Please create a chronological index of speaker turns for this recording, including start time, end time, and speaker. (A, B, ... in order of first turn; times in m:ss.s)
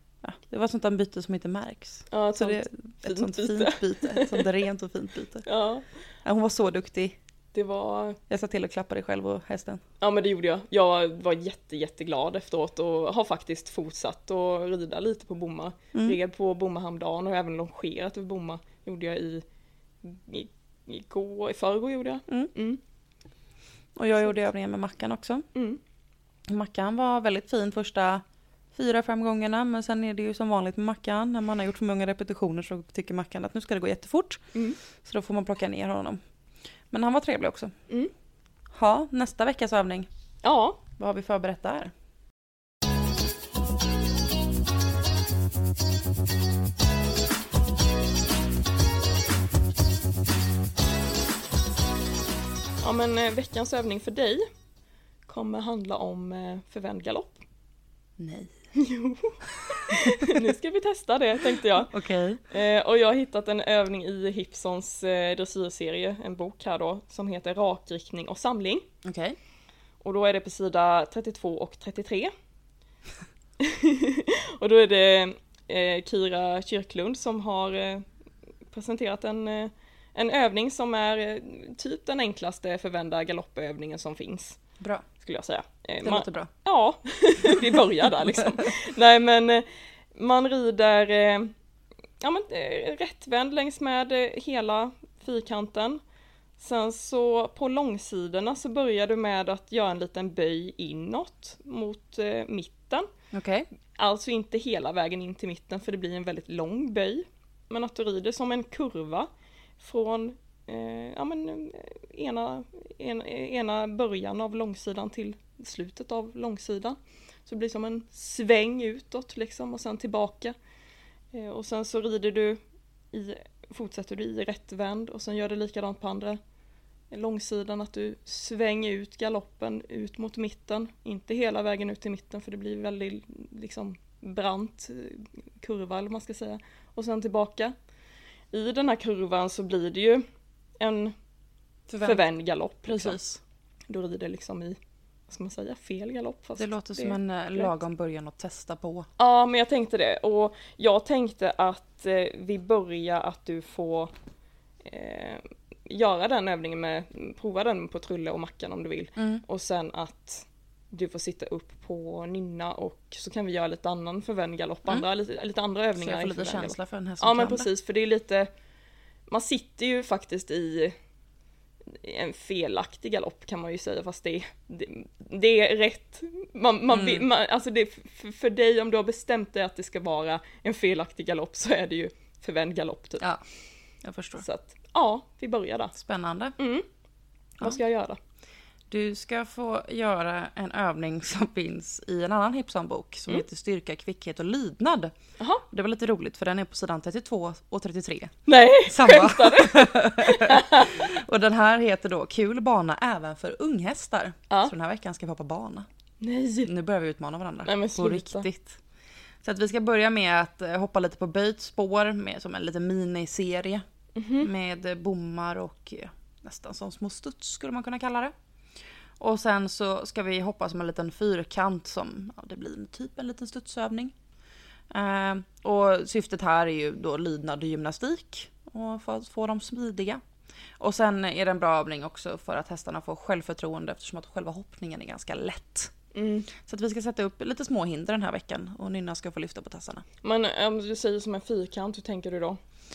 0:00.2-0:05.4 A
0:02.1-0:04.5 B
0:05.4-0:05.8 B
0:06.2-0:07.1 A
0:07.5-0:08.2 B
0:08.3-0:09.8 A
0:10.0-0:19.4 B
0:20.0-0:22.8 B
0:23.9-0:25.4 A
0:25.5-0:25.8 B
0:26.5-0:28.2 A
0:28.7-0:34.4 A
0:35.0-0:36.2 A
0:36.9-0:37.7 A
0:38.7-0:40.1 A
0:40.4-0:40.8 B
0:41.0-0:41.9 A
0:52.8-0:54.4 B
0:55.3-0:57.4 B
0:58.2-0:58.6 A
0:58.7-1:01.9 B
0:59.9-1:00.4 A
1:01.8-1:02.4 A
1:02.5-1:08.8 B
1:09.0-1:09.4 A
1:10.0-1:12.3 B
1:13.6-1:18.0 B
1:18.7-1:24.6 B
1:24.8-1:25.0 A
1:25.2-1:31.5 B
1:26.0-1:26.5 A
1:27.5-1:28.4 A
1:32.2-1:36.0 B
1:36.6-1:43.1 B
1:43.3-1:43.7 A
1:44.0-1:49.3 B
1:49.8-2:00.5 B
2:01.3-2:02.6 B
2:03.1-2:06.4 B
2:07.1-2:17.7 B
2:18.5-2:20.2 B
2:20.8-2:21.1 B
2:21.9-2:22.2 A
2:22.0-2:23.2 B
2:22.8-2:23.4 A
2:23.9-2:24.8 B
2:25.3-2:27.7 B
2:26.6-2:29.1 A
2:29.2-2:34.1 B
2:34.8-2:48.5 B
2:39.2-2:39.4 A
2:46.0-2:47.7 A
2:49.3-2:50.9 B
2:51.9-3:03.3 B
2:56.9-2:57.2 A
3:04.0-3:04.4 A
3:04.4-3:05.9 B
3:05.9-3:06.6 A
3:06.6-3:06.8 B
3:07.6-3:08.2 B
3:08.9-3:15.1 A
3:15.4-3:15.6 B
3:15.7-3:25.8 A
3:18.5-3:21.0 B
3:26.2-3:26.7 B
3:26.6-3:28.8 A
3:27.6-3:28.5 B
3:29.4-3:33.8 A
3:34.2-3:34.5 B
3:34.4-3:38.3 A
3:39.2-3:44.1 A
3:44.9-3:50.2 A
3:50.8-3:55.9 A
3:56.1-3:56.5 B
3:56.6-4:00.0 A
4:00.2-4:02.6 B